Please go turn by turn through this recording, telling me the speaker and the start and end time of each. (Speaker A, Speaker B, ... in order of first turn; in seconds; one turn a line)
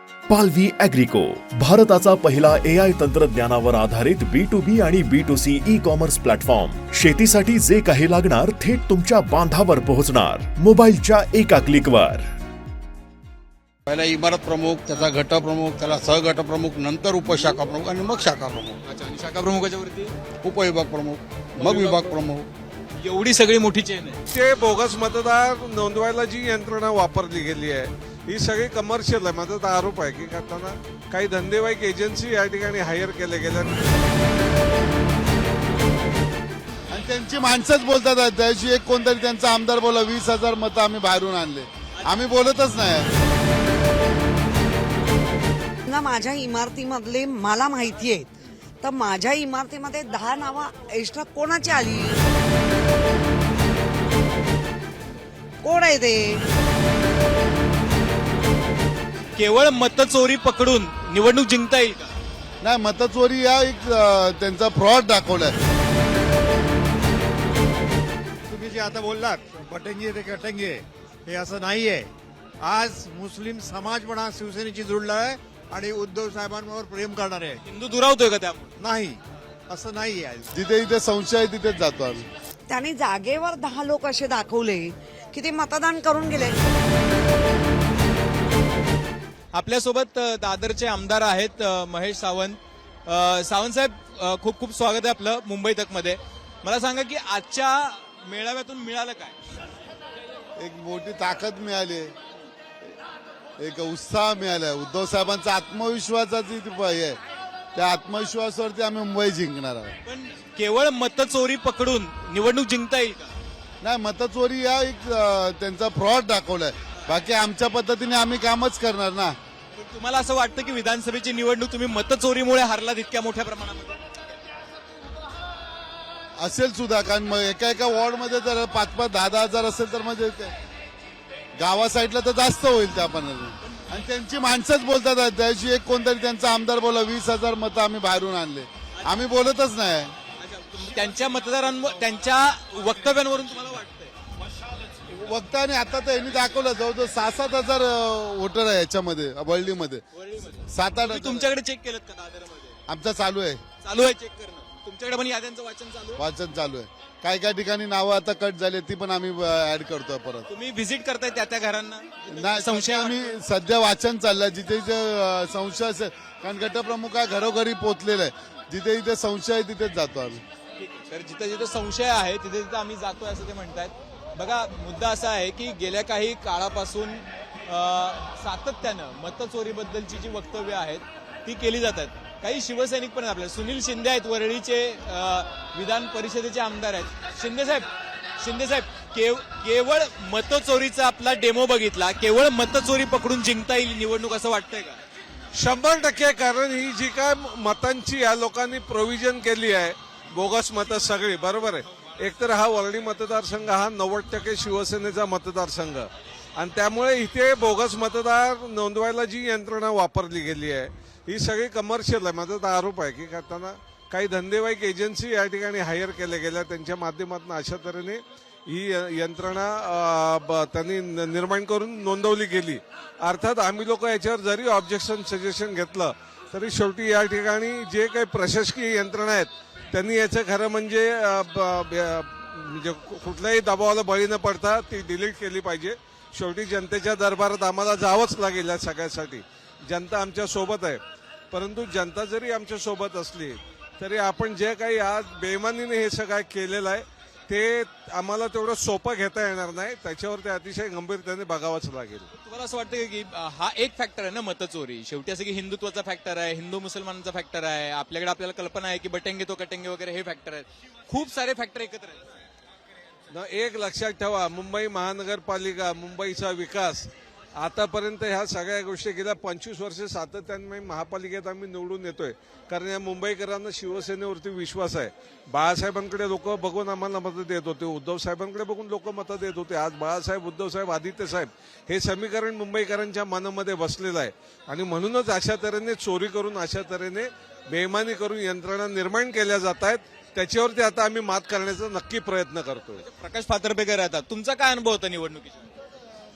Speaker A: 0.3-12.2
Speaker B: 13.9-18.8
Speaker C: 18.9-20.1
Speaker B: 20.4-22.5
Speaker C: 21.6-22.2
Speaker C: 23.0-24.2
Speaker D: 24.3-33.8
Speaker E: 36.9-43.1
Speaker F: 45.9-48.3
Speaker F: 48.8-52.2
Speaker F: 55.6-56.4
Speaker C: 59.4-62.1
Speaker E: 62.6-65.5
Speaker G: 68.5-77.6
Speaker C: 77.7-78.7
Speaker G: 78.8-80.5
Speaker E: 80.5-82.2
Speaker F: 82.7-86.5
Speaker C: 89.5-99.3
Speaker E: 100.6-102.1
Speaker E: 103.6-107.2
Speaker E: 107.7-109.9
Speaker C: 110.0-113.3
Speaker E: 113.8-119.4
Speaker C: 119.7-124.0
Speaker E: 126.4-130.5
Speaker E: 131.6-140.1
Speaker C: 140.4-144.1
Speaker E: 145.1-150.0
Speaker C: 150.1-152.8
Speaker E: 150.6-151.5
Speaker E: 152.9-153.6
Speaker C: 153.8-156.2
Speaker E: 156.2-160.5
Speaker C: 160.5-163.4
Speaker E: 162.3-170.4
Speaker C: 170.8-187.9
Speaker C: 188.4-195.0
Speaker D: 195.6-241.0
Speaker D: 241.5-252.2
Speaker C: 252.3-262.2
Speaker D: 263.3-293.0
Speaker C: 292.9-295.7